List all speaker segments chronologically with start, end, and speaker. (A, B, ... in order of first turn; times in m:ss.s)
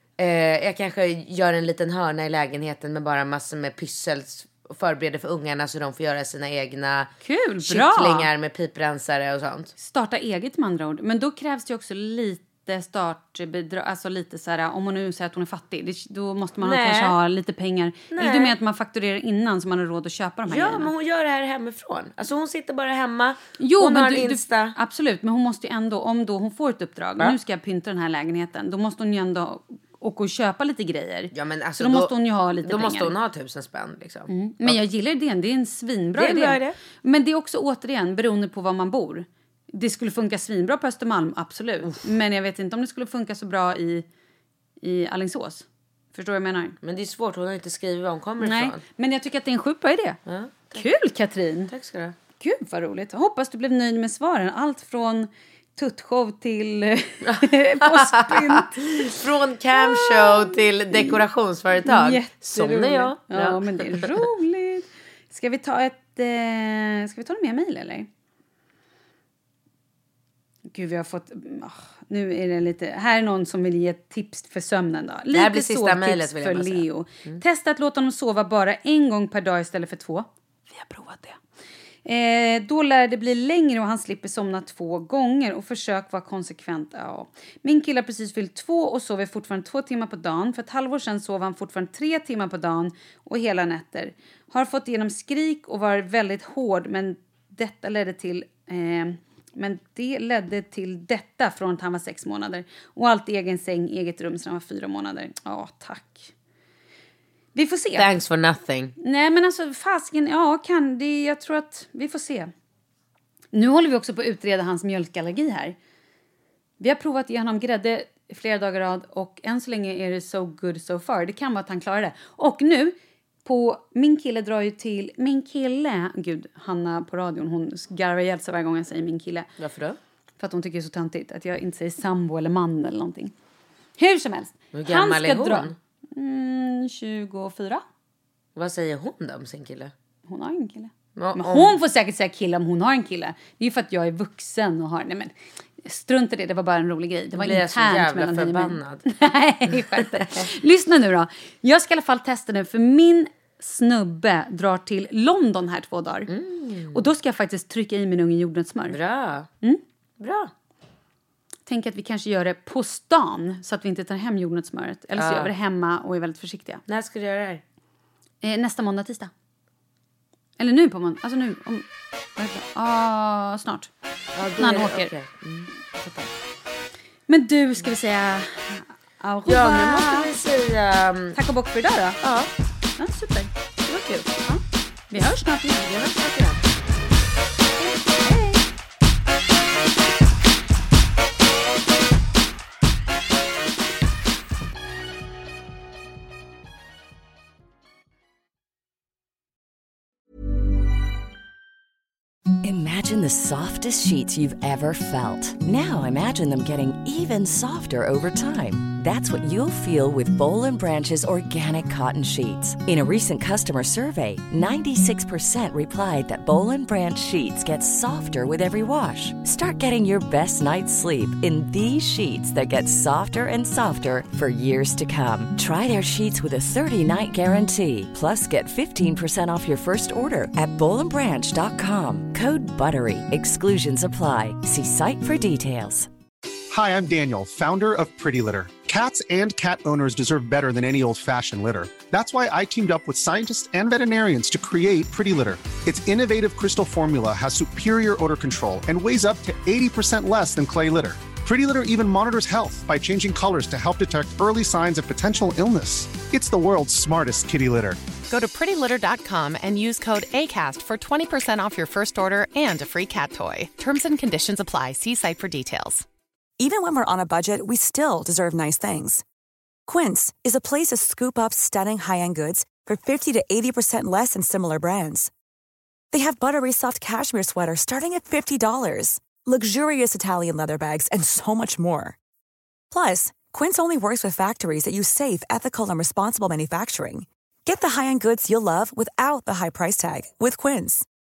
0:00.2-0:07.1 A
0:07.2-0:08.3 B
0:07.6-0:09.7 A
0:09.8-0:20.9 B
0:16.6-0:17.1 A
0:18.1-0:18.6 A
0:20.5-0:24.7 A
0:23.6-0:33.1 B
0:31.3-0:32.1 A
0:32.6-0:34.8 A
0:34.3-0:44.0 B
0:36.2-0:36.8 A
0:44.8-0:46.8 B
0:46.8-0:48.8 A
0:48.4-0:50.2 B
0:50.3-0:50.9 A
0:50.7-0:51.7 B
0:51.7-0:52.2 A
0:52.4-0:59.1 B
0:57.2-1:04.2 A
0:59.7-1:01.2 B
1:01.8-1:08.1 B
1:10.7-1:21.4 B
1:15.3-1:17.4 A
1:22.0-1:46.3 B
1:47.6-1:48.1 B
1:48.0-1:48.9 A
1:49.0-1:52.5 B
1:53.5-1:55.7 B
1:56.8-2:09.5 B
2:09.6-2:10.0 A
2:10.4-2:13.3 B
2:14.0-2:17.8 B
2:14.7-2:15.7 A
2:18.6-2:19.9 A
2:20.3-2:36.3 B
2:21.2-2:21.7 A
2:27.4-2:29.0 A
2:29.7-2:30.4 A
2:36.3-2:37.0 A
2:36.9-2:39.0 B
2:38.9-2:39.5 A
2:40.2-2:40.5 A
2:41.6-2:46.8 B
2:45.2-2:45.5 A
2:46.9-2:47.6 A
2:48.4-2:49.3 B
2:50.6-2:51.9 B
2:52.4-2:53.9 B
2:54.4-2:55.7 A
2:54.6-2:55.1 B
2:56.0-2:56.3 B
2:57.3-3:00.3 B
2:59.4-3:01.4 A
3:01.3-3:02.2 B
3:02.2-3:02.5 A
3:03.0-3:03.5 B
3:03.9-3:04.4 A
3:04.4-3:05.9 B
3:05.8-3:06.6 A
3:07.8-3:08.6 B
3:22.6-3:56.1 C
3:56.7-4:18.0 D
4:18.3-4:26.0 E
4:26.6-4:29.2 F
4:29.9-4:35.3 F
4:36.1-4:42.2 F
4:42.9-4:51.0 F